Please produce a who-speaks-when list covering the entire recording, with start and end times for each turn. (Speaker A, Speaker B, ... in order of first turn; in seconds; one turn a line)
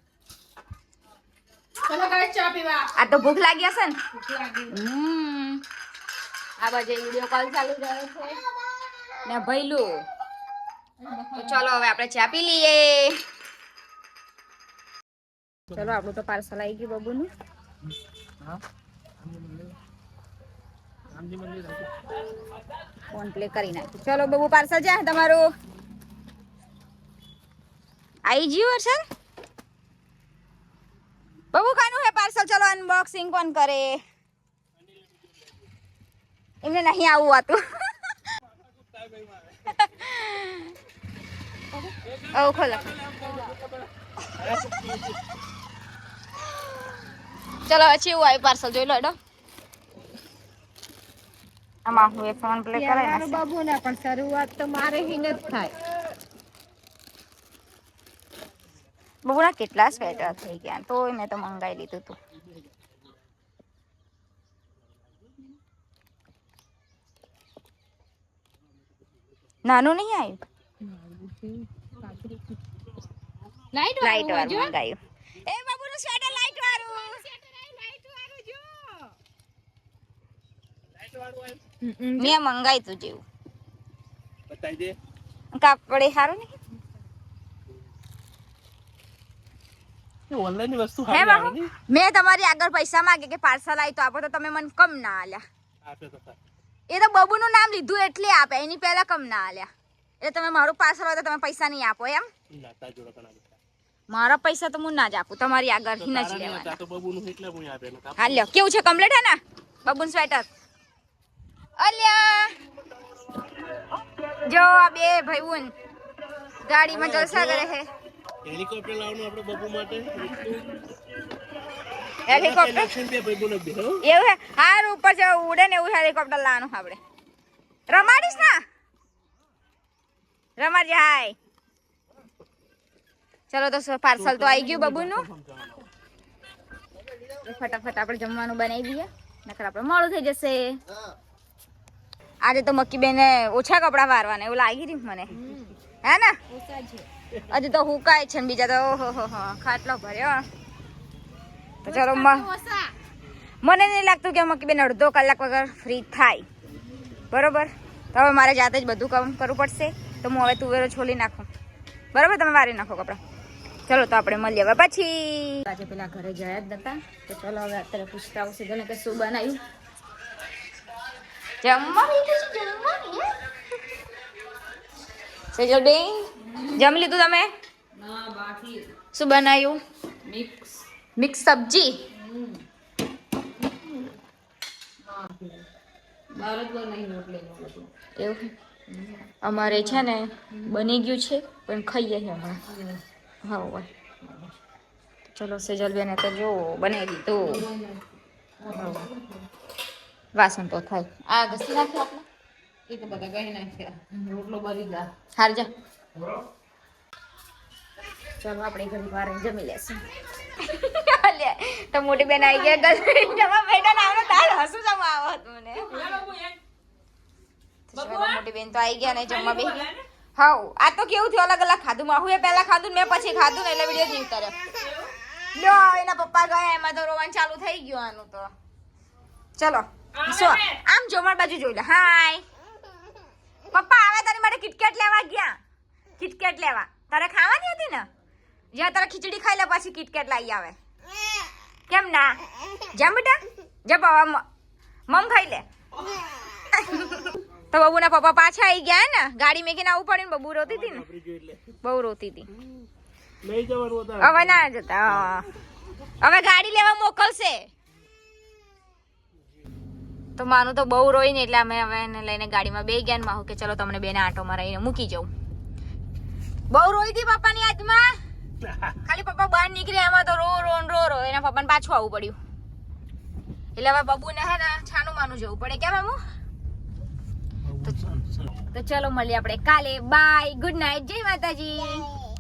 Speaker A: 1.8-2.9
Speaker B: 3.0-4.0
Speaker A: 4.1-4.8
Speaker B: 4.7-5.6
Speaker B: 6.6-8.1
Speaker B: 9.3-9.9
Speaker A: 11.0-11.6
Speaker B: 11.3-13.2
Speaker B: 15.7-17.3
Speaker C: 19.3-19.7
Speaker C: 21.1-22.0
Speaker B: 23.1-25.4
Speaker B: 28.3-29.0
Speaker B: 31.5-34.0
Speaker B: 36.6-37.6
Speaker C: 38.8-39.8
Speaker B: 39.7-40.7
Speaker B: 42.3-43.0
Speaker C: 43.0-43.6
Speaker C: 44.3-45.2
Speaker B: 47.7-49.1
Speaker B: 51.9-53.4
Speaker A: 52.8-55.7
Speaker B: 59.2-62.2
Speaker B: 69.6-70.4
Speaker A: 70.8-72.6
Speaker A: 73.7-74.7
Speaker B: 74.0-77.3
Speaker B: 77.8-79.0
Speaker C: 81.0-81.7
Speaker A: 81.8-82.3
Speaker B: 82.2-83.2
Speaker C: 84.5-85.0
Speaker B: 85.5-86.5
Speaker C: 90.3-91.7
Speaker B: 91.1-95.4
Speaker C: 95.8-96.4
Speaker B: 96.9-99.7
Speaker B: 100.2-102.3
Speaker C: 102.5-103.6
Speaker B: 104.1-106.8
Speaker C: 106.0-108.5
Speaker B: 108.2-110.5
Speaker B: 111.8-112.5
Speaker B: 114.5-115.7
Speaker B: 116.7-117.9
Speaker C: 116.9-117.7
Speaker C: 118.5-120.8
Speaker B: 122.3-122.9
Speaker C: 122.3-124.0
Speaker B: 124.0-127.0
Speaker B: 127.9-128.6
Speaker B: 130.6-131.4
Speaker B: 133.5-135.3
Speaker C: 134.2-135.9
Speaker B: 137.4-140.8
Speaker B: 142.4-145.4
Speaker A: 145.5-145.7
Speaker B: 146.0-146.3
Speaker A: 146.5-147.1
Speaker B: 147.5-150.4
Speaker B: 151.8-152.5
Speaker A: 151.9-152.9
Speaker B: 153.6-156.5
Speaker B: 157.3-161.5
Speaker B: 162.1-163.2
Speaker B: 163.9-169.6
Speaker B: 171.6-173.2
Speaker B: 175.5-177.5
Speaker A: 177.9-178.9
Speaker B: 179.1-179.8
Speaker A: 180.2-180.8
Speaker B: 181.2-181.9
Speaker A: 182.1-182.6
Speaker A: 183.6-184.1
Speaker A: 185.0-185.7
Speaker A: 186.3-187.9
Speaker B: 188.2-188.5
Speaker A: 188.9-190.0
Speaker B: 189.4-192.6
Speaker A: 192.7-193.0
Speaker B: 193.4-193.9
Speaker A: 194.2-194.5
Speaker B: 195.3-197.6
Speaker A: 197.4-198.0
Speaker A: 198.6-199.5
Speaker B: 198.7-199.1
Speaker B: 200.3-202.2
Speaker A: 202.9-205.1
Speaker B: 205.3-205.7
Speaker B: 208.4-210.0
Speaker B: 210.6-215.9
Speaker A: 215.9-216.6
Speaker B: 217.9-219.8
Speaker A: 218.0-218.3
Speaker A: 219.1-220.0
Speaker B: 220.4-224.6
Speaker A: 224.8-225.1
Speaker B: 225.6-228.5
Speaker B: 229.6-232.4
Speaker A: 230.2-230.8
Speaker B: 233.7-235.6
Speaker B: 236.2-238.1
Speaker B: 238.7-240.8
Speaker B: 241.9-242.4
Speaker B: 242.9-244.4
Speaker B: 245.1-245.6
Speaker B: 246.7-251.0
Speaker C: 250.7-251.8
Speaker B: 251.8-252.5
Speaker C: 252.5-252.9
Speaker C: 253.4-255.5
Speaker B: 254.2-255.5
Speaker B: 256.2-257.7
Speaker B: 260.4-265.3
Speaker B: 266.7-268.2
Speaker B: 269.0-272.4
Speaker B: 273.8-276.2
Speaker C: 277.7-278.5
Speaker B: 278.7-282.1